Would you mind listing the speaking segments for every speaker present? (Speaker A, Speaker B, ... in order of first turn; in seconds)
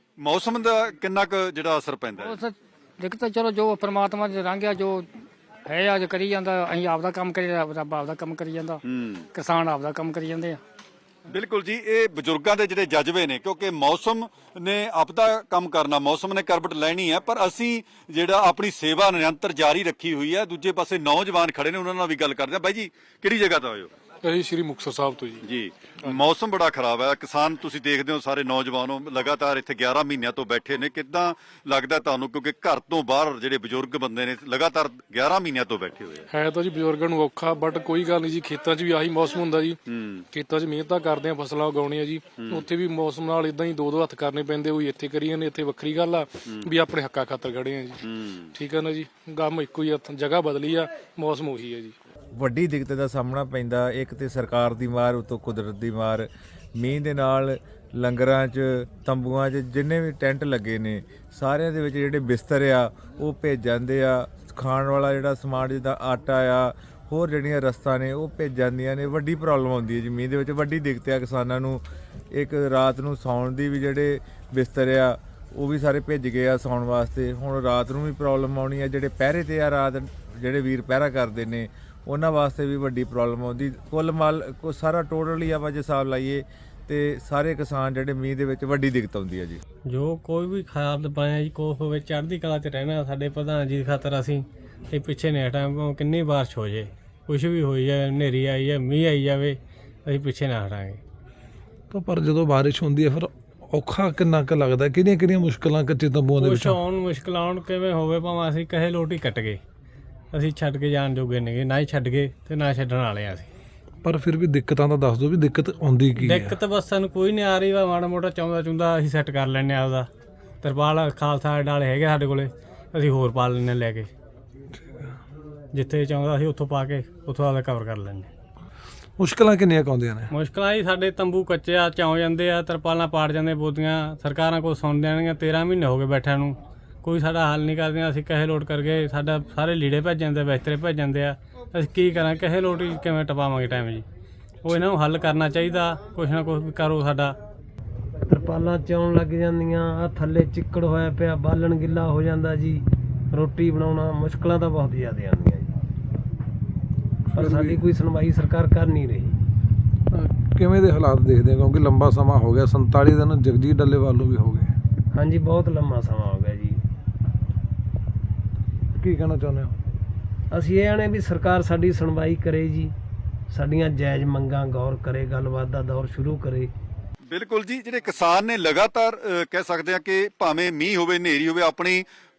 Speaker A: 0.2-2.4, 8.8-9.2, 11.3-23.9, 25.4-36.2, 39.9-40.2, 42.4-42.6, 48.0-48.5, 177.3-182.0
Speaker B: 2.2-8.8, 9.3-10.6
Speaker C: 24.2-25.4, 36.3-39.8, 40.3-52.0
Speaker D: 52.3-89.6
Speaker E: 89.9-101.0, 106.4-109.6, 110.3-113.5, 116.2-120.1, 120.6-124.1, 125.7-128.3, 130.3-144.0, 144.6-147.3
Speaker F: 101.9-106.8, 114.0-116.6, 129.2-130.3, 157.3-157.8, 160.1-164.7, 168.9-169.8
Speaker G: 148.2-155.7, 157.3-159.4, 165.1-166.8, 170.5-172.9, 173.5-176.7